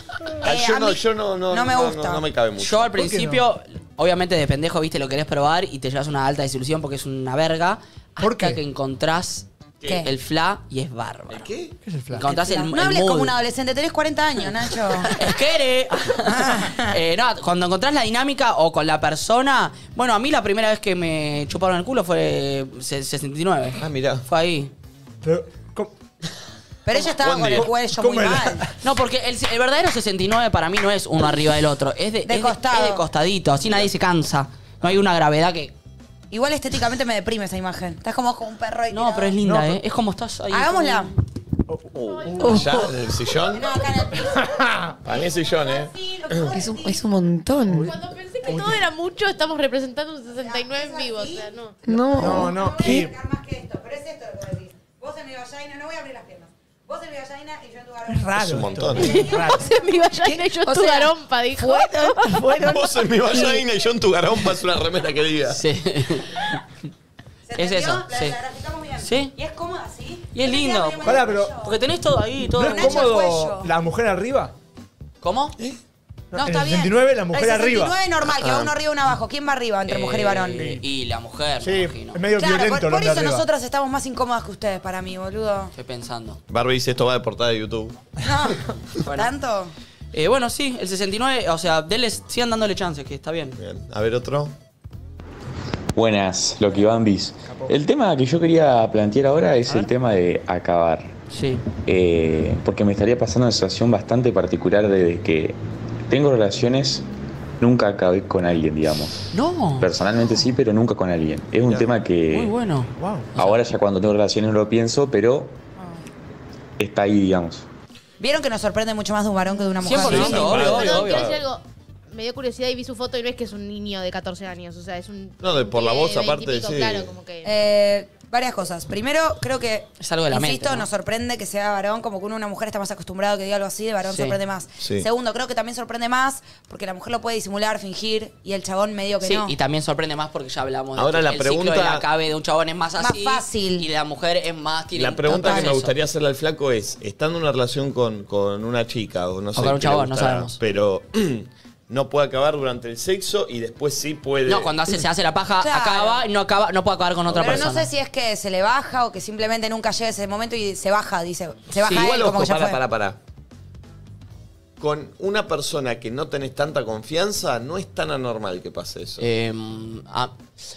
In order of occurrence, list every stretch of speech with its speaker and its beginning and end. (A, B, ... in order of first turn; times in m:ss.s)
0:00.4-0:02.9 A
0:00.4-0:02.2 B
0:02.6-0:09.4 C
0:02.9-0:03.4 D
0:08.2-0:08.6 D
0:09.8-0:10.0 A
0:10.0-0:11.5 C
0:11.3-0:11.7 A
0:11.8-0:12.3 D
0:12.1-0:13.3 C
0:12.3-0:15.2 B
0:15.0-0:24.7 C
0:16.2-0:17.0 B
0:23.8-0:24.2 A
0:25.2-0:25.9 D
0:26.8-0:28.6 B
0:27.0-0:27.7 A
0:27.5-0:28.7 D
0:28.8-0:35.7 C
0:32.2-0:33.0 B
0:36.3-0:39.4 B
0:38.9-0:41.1 C
0:39.4-0:39.8 D
0:40.5-0:41.1 B
0:41.7-0:42.9 D
0:42.0-0:43.7 A
0:42.0-0:42.6 E
0:43.5-0:44.6 B
0:44.2-0:44.9 D
0:45.0-0:46.5 A
0:45.4-0:47.0 B
0:46.4-0:47.9 F
0:47.7-0:48.8 D
0:47.8-0:51.8 E
0:50.3-0:51.5 B
0:51.8-0:53.0 F
0:52.1-0:53.2 D
0:52.2-0:58.4 B
0:58.1-0:59.7 D
0:58.3-0:59.2 A
0:58.9-0:59.7 B
0:59.1-1:02.4 E
1:00.1-1:03.6 F
1:02.5-1:05.6 A
1:05.5-1:06.6 C
1:07.5-1:11.8 B
1:07.6-1:08.4 C
1:09.0-1:09.3 C
1:10.3-1:13.0 C
1:11.0-1:11.6 D
1:12.5-1:14.5 D
1:12.6-1:13.7 B
1:15.2-1:15.5 C
1:16.3-1:18.0 D
1:16.3-1:20.7 B
1:18.4-1:18.7 A
1:19.9-1:22.2 C
1:20.5-1:20.8 D
1:21.6-1:23.4 D
1:22.4-1:25.7 B
1:25.7-1:26.4 C
1:26.5-1:28.1 A
1:28.2-1:29.7 B
1:29.0-1:29.3 C
1:30.1-1:33.6 C
1:33.6-1:34.5 A
1:35.9-1:41.1 G
1:41.3-1:41.6 C
1:41.8-1:45.6 G
1:46.1-1:47.0 G
1:47.6-1:52.5 G
1:49.3-1:49.9 C
1:52.3-1:53.6 C
1:53.0-1:53.3 D
1:53.4-1:55.6 G
1:56.8-1:57.6 G
1:58.2-2:00.8 B
1:59.8-2:01.3 C
1:59.8-2:01.4 A
2:00.2-2:07.5 E
2:05.4-2:07.1 A
2:07.4-2:19.5 B
2:10.0-2:10.9 C
2:14.1-2:14.4 C
2:14.8-2:15.1 A
2:19.2-2:25.9 C
2:21.0-2:22.1 A
2:23.0-2:23.9 B
2:24.9-2:34.9 A
2:25.3-2:25.7 B
2:29.6-2:30.6 C
2:34.4-2:37.9 C
2:35.6-2:36.2 B
2:37.3-2:37.7 A
2:37.4-2:42.8 B
2:41.8-2:42.1 C
2:41.8-2:43.2 A
2:44.8-2:49.2 A
2:49.2-2:50.3 C